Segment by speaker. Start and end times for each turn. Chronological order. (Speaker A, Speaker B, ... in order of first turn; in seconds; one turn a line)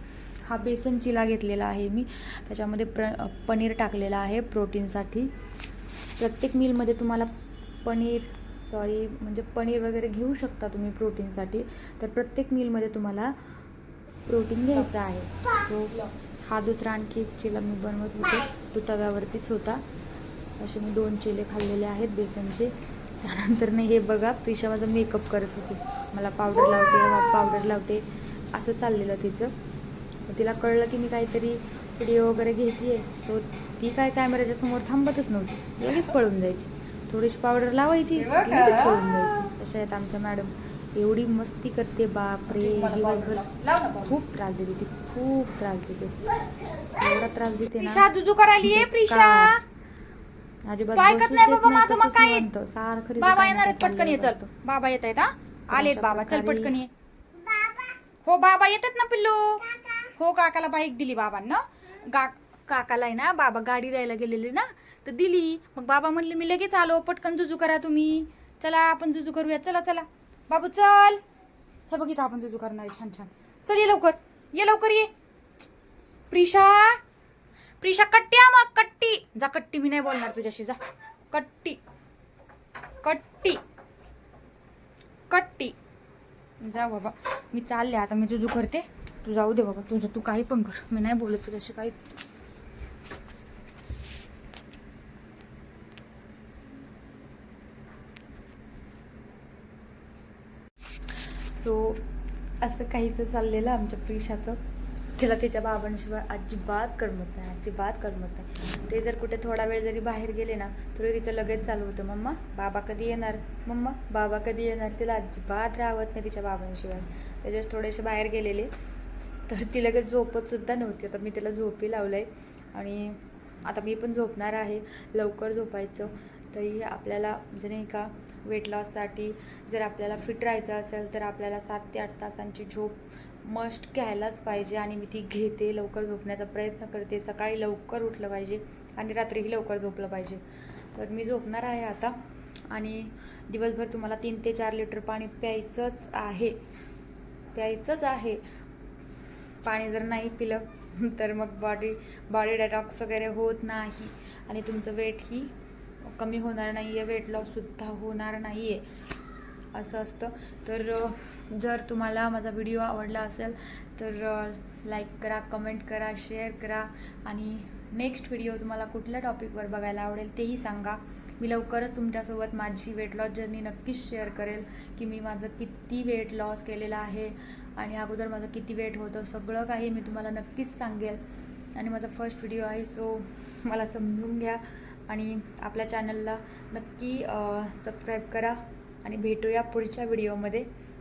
Speaker A: 0.5-5.3
Speaker A: 6.2-7.3
Speaker A: 7.8-13.4
Speaker A: 14.3-19.8
Speaker A: 20.6-29.5
Speaker A: 30.3-46.3
Speaker B: 38.2-39.3
Speaker B: 42.5-44.1
Speaker A: 46.9-48.1
Speaker B: 47.8-49.6
Speaker A: 48.6-49.6
Speaker A: 50.7-54.5
Speaker B: 51.0-52.5
Speaker B: 53.2-56.9
Speaker A: 55.7-56.8
Speaker B: 58.2-71.2
Speaker B: 71.9-75.1
Speaker B: 76.3-77.0
Speaker B: 77.8-81.8
Speaker B: 83.0-83.6
Speaker B: 85.3-85.8
Speaker B: 86.6-92.1
Speaker A: 101.5-102.0
Speaker A: 102.6-104.6
Speaker A: 105.2-118.7
Speaker A: 119.2-140.4
Speaker A: 140.9-142.2
Speaker A: 142.7-146.6
Speaker A: 147.5-148.4
Speaker A: 149.6-158.9
Speaker A: 159.7-181.2
Speaker A: 181.8-190.7